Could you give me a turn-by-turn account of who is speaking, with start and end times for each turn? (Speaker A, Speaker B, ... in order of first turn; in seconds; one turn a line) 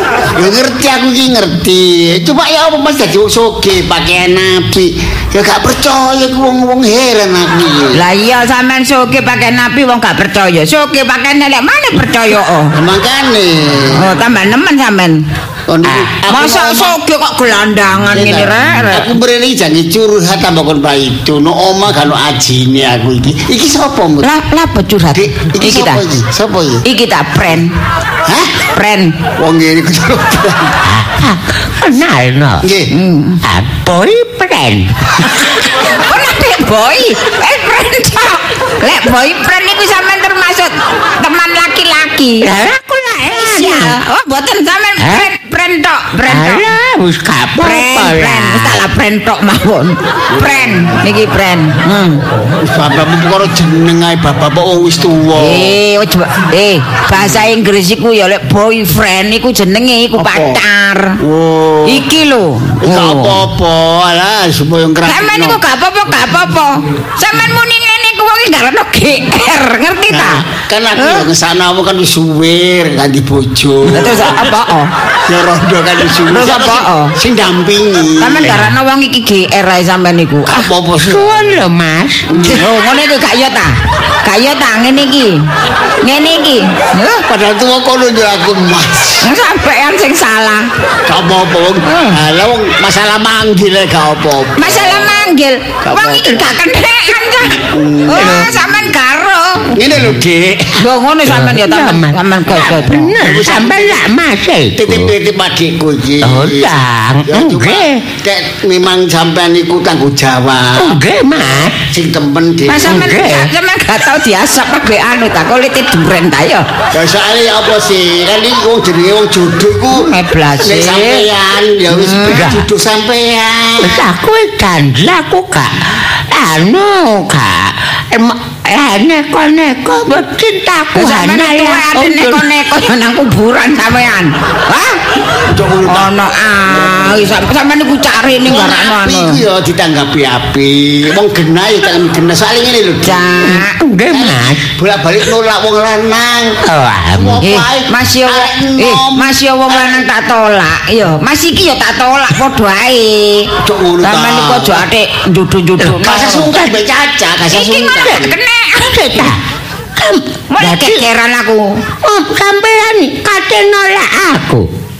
Speaker A: 0.3-8.0
Speaker B: 7.9-12.8
Speaker A: 12.7-14.1
Speaker B: 13.9-15.2
Speaker A: 15.7-16.9
Speaker B: 16.2-19.1
Speaker A: 18.1-24.3
Speaker B: 24.2-26.0
Speaker A: 25.1-26.8
Speaker B: 26.8-27.7
Speaker A: 28.2-28.6
Speaker B: 28.7-29.2
Speaker A: 29.4-30.8
Speaker C: 30.8-32.6
Speaker A: 32.6-32.9
Speaker B: 32.9-33.4
Speaker C: 33.4-35.2
Speaker B: 35.6-42.5
Speaker C: 42.4-44.0
Speaker B: 43.3-46.6
Speaker C: 45.0-45.3
Speaker C: 46.2-48.8
Speaker B: 47.6-52.2
Speaker A: 50.3-50.9
Speaker A: 52.6-55.7
Speaker B: 55.3-61.2
Speaker A: 60.2-60.6
Speaker A: 61.2-62.1
Speaker B: 61.9-63.5
Speaker A: 62.8-65.6
Speaker B: 65.0-70.4
Speaker A: 70.1-74.4
Speaker B: 71.0-71.3
Speaker B: 73.9-74.9
Speaker A: 75.3-78.7
Speaker B: 76.3-77.1
Speaker B: 78.2-80.7
Speaker A: 80.5-81.3
Speaker C: 81.0-82.3
Speaker A: 82.3-82.6
Speaker B: 82.3-85.4
Speaker B: 86.0-87.2
Speaker A: 87.3-89.2
Speaker B: 89.2-90.7
Speaker A: 91.0-95.1
Speaker B: 91.8-92.2
Speaker B: 94.5-99.7
Speaker A: 95.8-96.5
Speaker A: 97.5-98.7
Speaker C: 98.1-98.5
Speaker A: 99.7-100.8
Speaker B: 100.8-103.1
Speaker C: 101.2-105.1
Speaker A: 103.1-103.9
Speaker A: 104.7-111.0
Speaker C: 106.2-108.0
Speaker C: 110.8-111.8
Speaker A: 111.8-113.0
Speaker B: 112.7-116.7
Speaker C: 112.8-113.5
Speaker A: 116.9-120.1
Speaker B: 119.9-121.3
Speaker A: 120.6-124.0
Speaker B: 121.9-122.5
Speaker C: 122.3-122.6
Speaker C: 123.8-132.4
Speaker B: 130.9-135.0
Speaker A: 135.4-136.1
Speaker B: 135.9-139.4
Speaker A: 136.6-137.2
Speaker A: 138.4-143.6
Speaker B: 143.0-143.8
Speaker C: 143.4-144.7
Speaker A: 144.1-146.6
Speaker C: 146.6-147.4
Speaker A: 147.1-150.0
Speaker B: 147.4-153.5
Speaker A: 153.6-154.8
Speaker B: 154.0-156.5
Speaker A: 156.0-158.3
Speaker B: 157.5-159.2
Speaker C: 158.8-159.4
Speaker C: 159.9-161.1
Speaker B: 160.5-161.8
Speaker C: 162.0-164.7